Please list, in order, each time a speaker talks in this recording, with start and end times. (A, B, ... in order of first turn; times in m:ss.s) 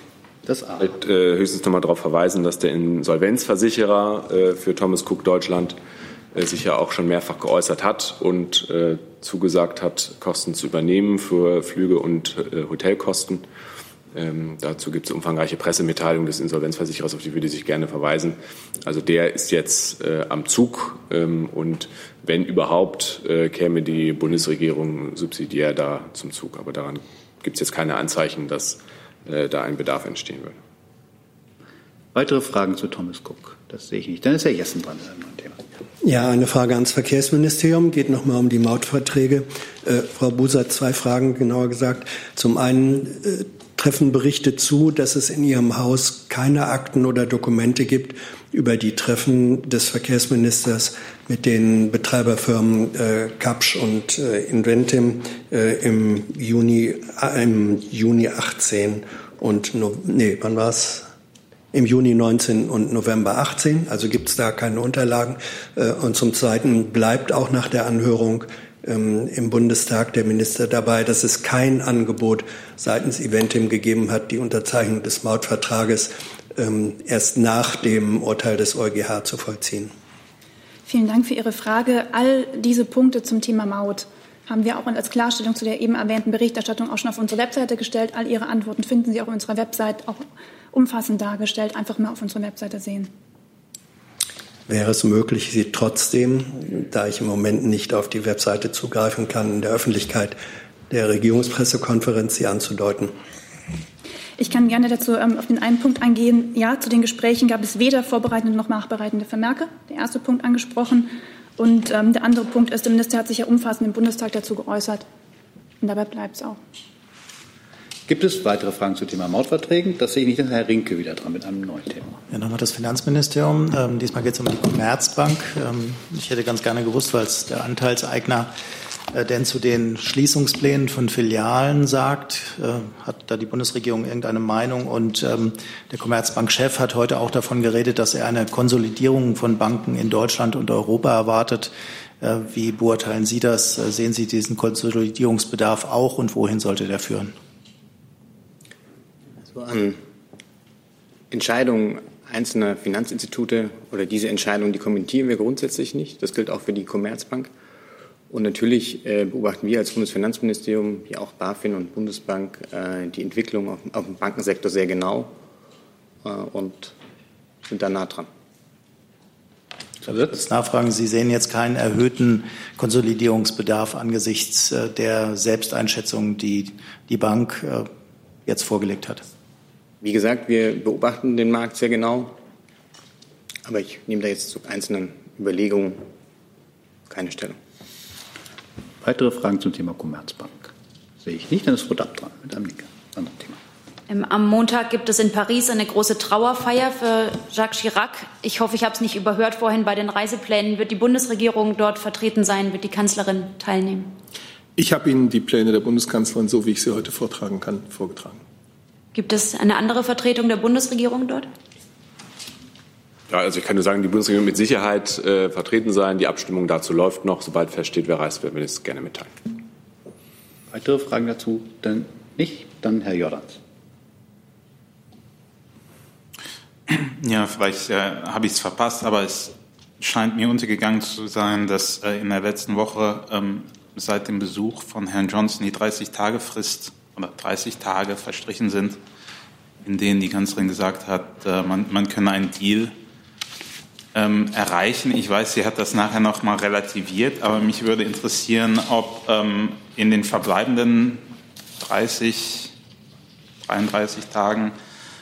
0:00.4-0:00.9 A
0:00.8-0:05.8 B
0:06.3-0:13.4 B
0:14.1-0:30.6 B
0:32.1-0:35.6 A
0:36.0-1:01.1 C
1:01.7-1:19.9 C
1:20.9-1:33.1 D
1:34.7-1:40.4 C
1:40.9-1:43.1 C
1:44.4-1:55.0 D
1:55.8-1:56.6 D
1:58.1-2:02.2 A
2:02.3-2:08.5 E
2:09.1-2:27.3 E
2:29.5-2:30.0 F
2:31.3-2:37.5 F
2:38.3-2:45.3 F
2:46.2-2:46.9 F
2:47.7-2:48.3 F
2:50.0-2:57.9 E
2:58.4-2:59.2 E
3:00.0-3:02.3 F
3:03.6-3:06.1 F
3:07.1-3:07.6 F
3:09.0-3:13.6 A
3:14.1-3:24.1 G
3:24.8-3:28.4 H
3:29.1-3:31.5 G
3:33.3-3:39.3 B
3:40.7-3:43.6 A
3:46.9-3:59.0 I
3:59.8-4:02.9 I
4:04.1-4:11.2 I
4:11.8-4:12.7 I
4:13.6-4:14.7 I